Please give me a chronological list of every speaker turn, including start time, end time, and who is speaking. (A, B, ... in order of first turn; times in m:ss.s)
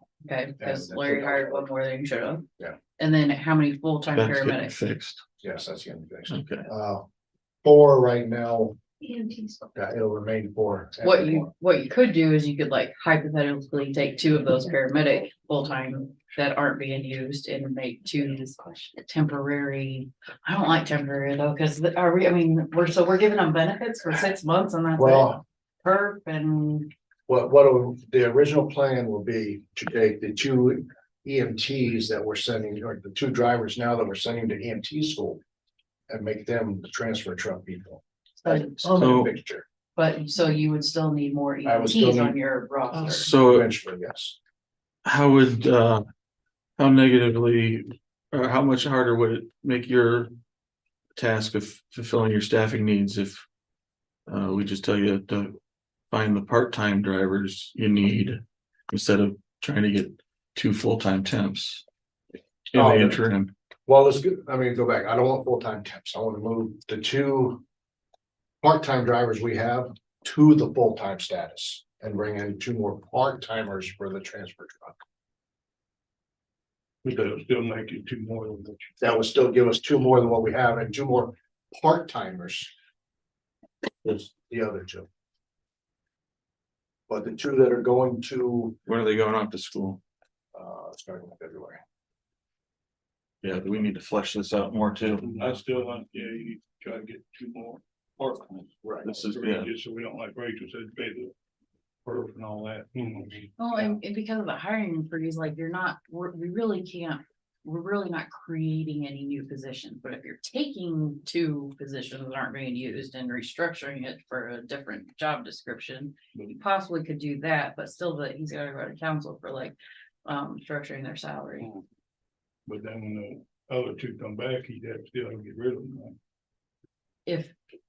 0:00.2-0:02.4 A
0:00.6-0:01.7 B
0:03.0-0:04.8 A
0:04.1-0:05.2 C
0:05.4-0:07.1 B
0:06.3-0:06.7 C
0:07.6-0:08.8 B
0:09.0-0:09.6 A
0:09.7-0:11.5 B
0:11.0-0:26.9 A
0:24.9-0:25.4 B
0:27.3-0:35.4 B
0:36.1-0:39.6 B
0:38.4-0:38.9 A
0:38.9-0:39.3 C
0:40.0-0:43.3 A
0:41.6-0:42.4 B
0:42.9-0:44.4 B
0:43.1-0:43.7 C
0:45.0-0:46.0 C
0:46.8-0:50.3 C
0:51.2-0:53.4 C
0:54.3-0:55.6 C
0:56.1-1:01.8 C
1:02.7-1:03.5 C
1:02.7-1:03.2 B
1:03.8-1:07.6 B
1:08.6-1:15.0 B
1:17.0-1:18.9 D
1:19.0-1:22.7 B
1:24.0-1:25.1 B
1:27.1-1:28.8 B
1:28.8-1:30.0 C
1:30.5-1:31.8 B
1:33.4-1:35.6 C
1:35.1-1:41.3 D
1:39.0-1:39.7 C
1:42.0-1:43.8 D
1:43.6-2:01.7 A
2:02.6-2:06.2 D
2:07.2-2:07.5 A